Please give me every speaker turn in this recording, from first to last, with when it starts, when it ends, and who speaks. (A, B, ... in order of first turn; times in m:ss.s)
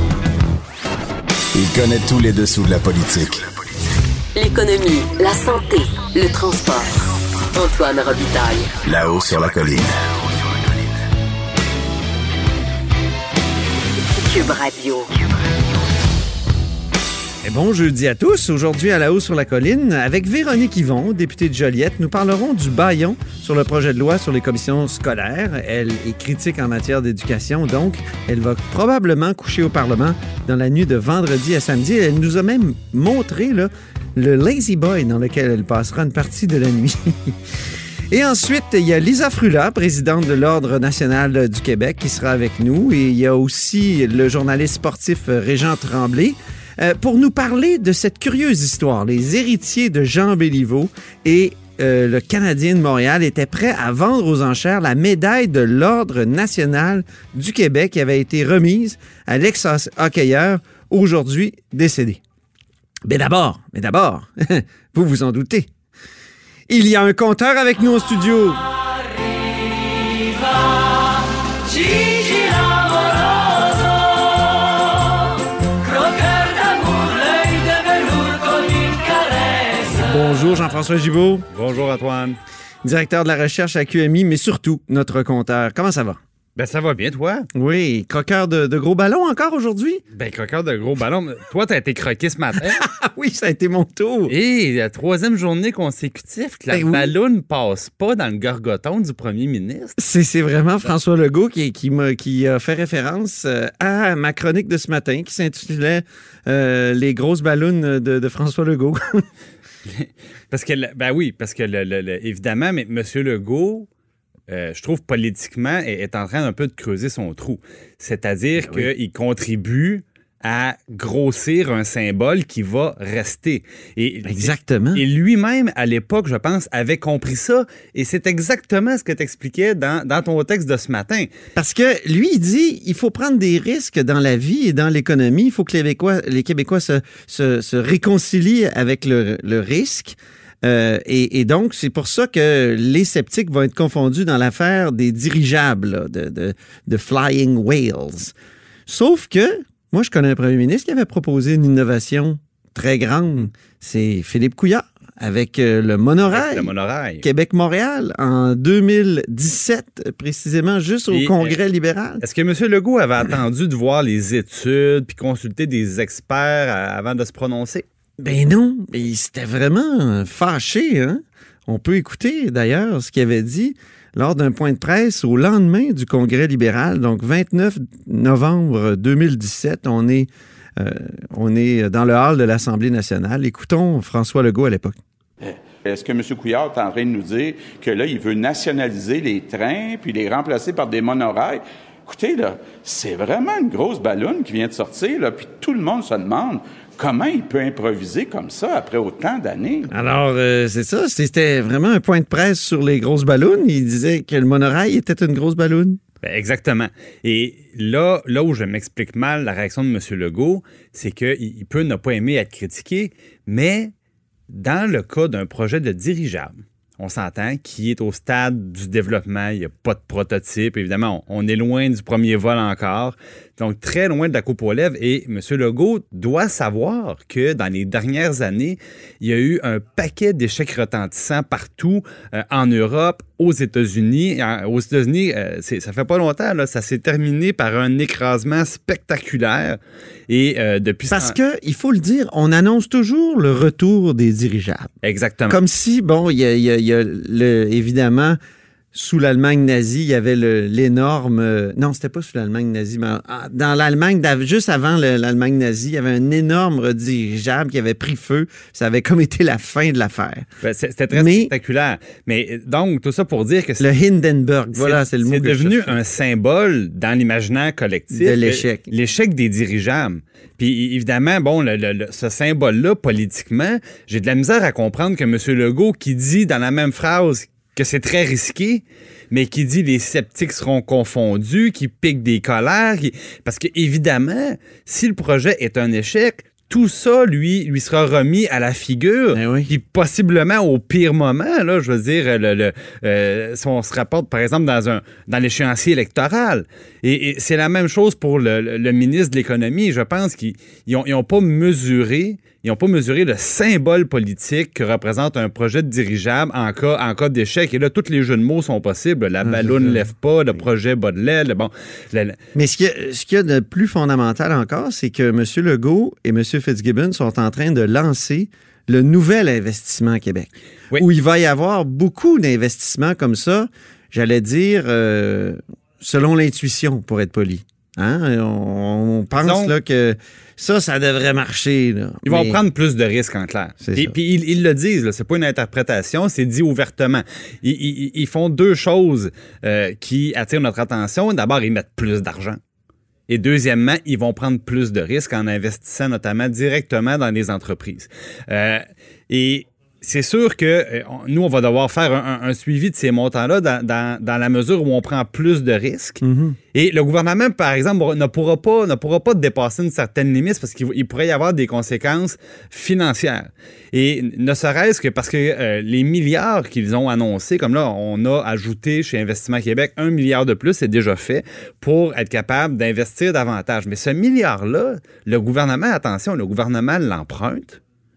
0:01.5-0:03.4 A
0:04.4-0:07.0 B
0:07.5-0:08.7 B
0:08.8-0:09.9 A
0:14.2-0:15.1 B
0:17.4-0:37.4 C
0:38.1-1:02.2 C
1:03.1-1:05.7 C
1:06.7-1:08.6 C
1:11.9-1:12.9 B
1:16.2-1:19.0 B
1:19.8-1:21.5 C
1:21.5-1:22.4 D
1:22.8-1:26.2 C
1:26.6-1:27.5 D
1:27.6-1:30.0 C
1:30.1-1:32.8 D
1:32.6-1:34.3 C
1:34.3-1:40.0 D
1:36.7-1:37.1 C
1:40.0-1:49.2 C
1:49.9-1:53.9 D
1:54.5-2:11.3 D
1:58.6-1:58.9 C
2:04.2-2:05.0 C
2:11.6-2:28.3 C
2:28.9-2:36.7 C
2:36.3-2:37.2 D
2:37.2-2:42.2 C
2:41.1-2:41.6 D
2:42.2-2:47.9 D
2:48.2-3:05.0 C
3:05.4-3:19.9 E
3:19.9-3:26.0 C
3:26.2-3:33.9 D
3:34.5-3:59.8 D
4:00.3-4:01.4 D
4:01.1-4:04.9 C
4:05.0-4:05.6 D
4:05.5-4:08.4 C
4:08.9-4:20.5 C
4:20.6-4:23.9 D
4:21.1-4:21.5 C
4:23.8-4:26.0 C
4:24.7-5:12.4 D
4:28.1-4:28.9 C
4:49.3-4:49.7 C
5:09.4-5:10.0 C
5:12.6-5:32.6 C
5:29.4-5:29.7 D
5:32.3-5:42.6 D
5:33.8-5:34.2 C
5:43.3-5:56.2 D
5:56.2-5:56.6 C
5:56.7-6:17.8 D